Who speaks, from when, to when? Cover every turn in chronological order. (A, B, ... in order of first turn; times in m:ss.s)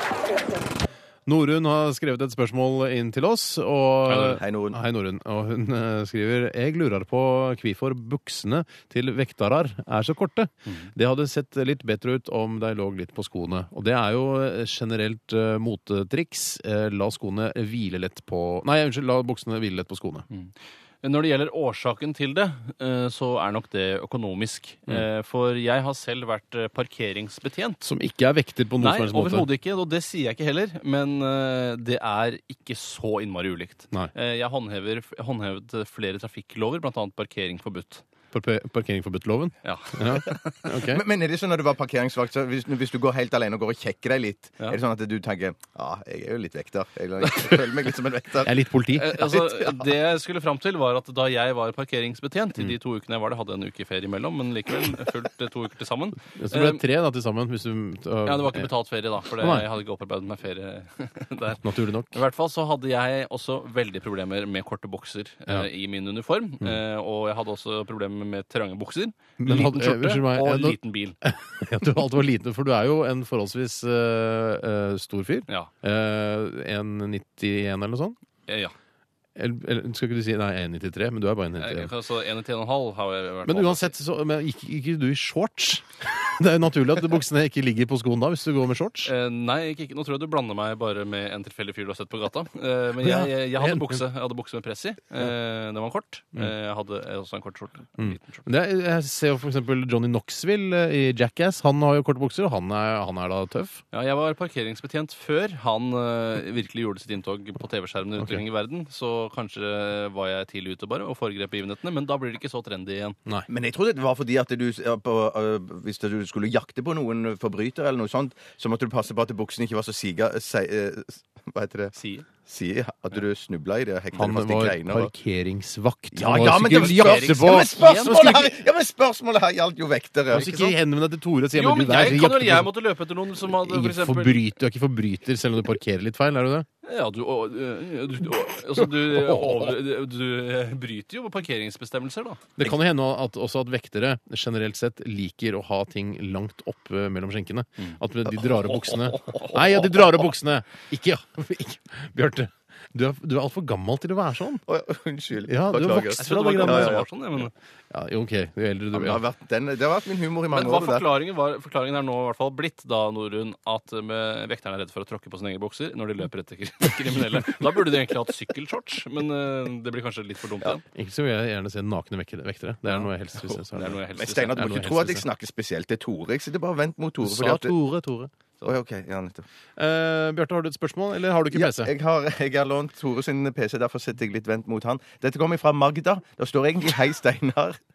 0:01.3-0:20.2 A
0:04.1-0:04.4 B
0:04.4-0:04.8 C
0:20.3-0:27.8 B
0:27.8-0:29.5 A
0:28.8-0:38.0 B
0:38.3-0:41.0 A
0:39.6-0:40.6 B
0:40.9-0:48.5 C
0:48.4-0:49.4 A
0:48.9-0:56.8 B
0:56.3-0:58.7 A
0:58.2-1:11.2 B
0:59.4-0:59.7 A
1:01.6-1:02.2 A
1:09.4-1:18.2 A
1:18.5-1:18.7 B
1:19.4-1:21.9 A
1:21.6-1:23.9 B
1:23.4-1:29.1 A
1:29.0-1:38.4 B
1:33.0-1:34.0 A
1:38.0-1:43.8 A
1:43.9-1:53.2 B
1:53.5-2:01.9 C
2:01.9-2:02.3 B
2:02.4-2:05.1 C
2:04.1-2:08.5 A
2:06.1-2:10.7 C
2:06.6-2:08.2 B
2:10.3-2:12.7 A
2:11.5-2:14.4 B
2:13.4-2:16.7 A
2:16.8-2:22.4 B
2:19.1-2:19.6 A
2:22.6-2:34.6 A
2:34.7-2:37.0 C
2:35.5-2:37.0 A
2:36.2-2:37.5 B
2:37.9-2:39.2 A
2:38.9-2:41.1 C
2:40.5-2:50.8 B
2:50.9-2:54.0 A
2:53.6-2:54.8 B
2:53.9-2:57.7 C
2:54.5-2:55.2 A
2:57.2-2:58.3 A
2:58.6-2:59.4 C
2:59.8-3:01.9 A
3:01.5-3:07.8 C